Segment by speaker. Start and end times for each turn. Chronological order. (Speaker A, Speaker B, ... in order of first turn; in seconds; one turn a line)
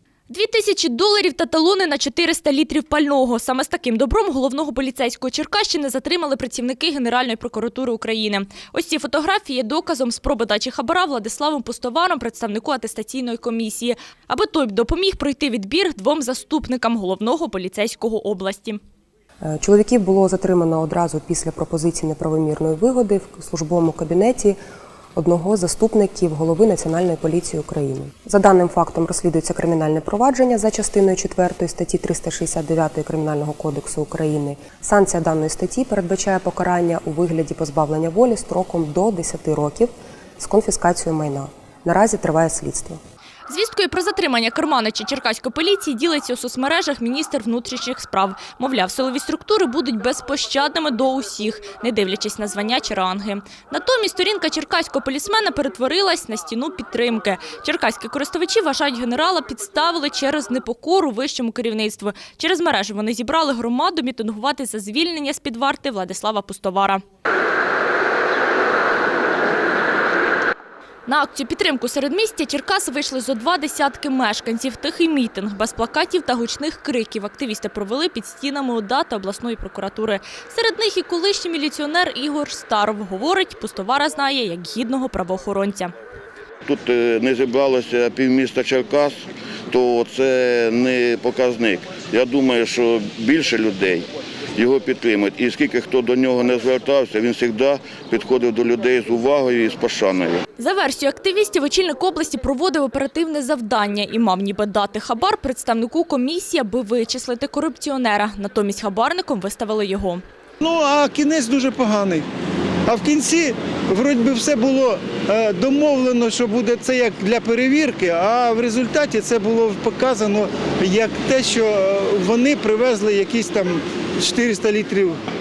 Speaker A: 0.3-18.8
Speaker B: 19.4-24.6
Speaker B: 25.2-43.0
Speaker A: 43.5-67.0
Speaker A: 71.1-85.9
Speaker C: 86.7-100.4
Speaker A: 100.6-110.2
Speaker D: 110.6-112.3
Speaker D: 112.9-125.2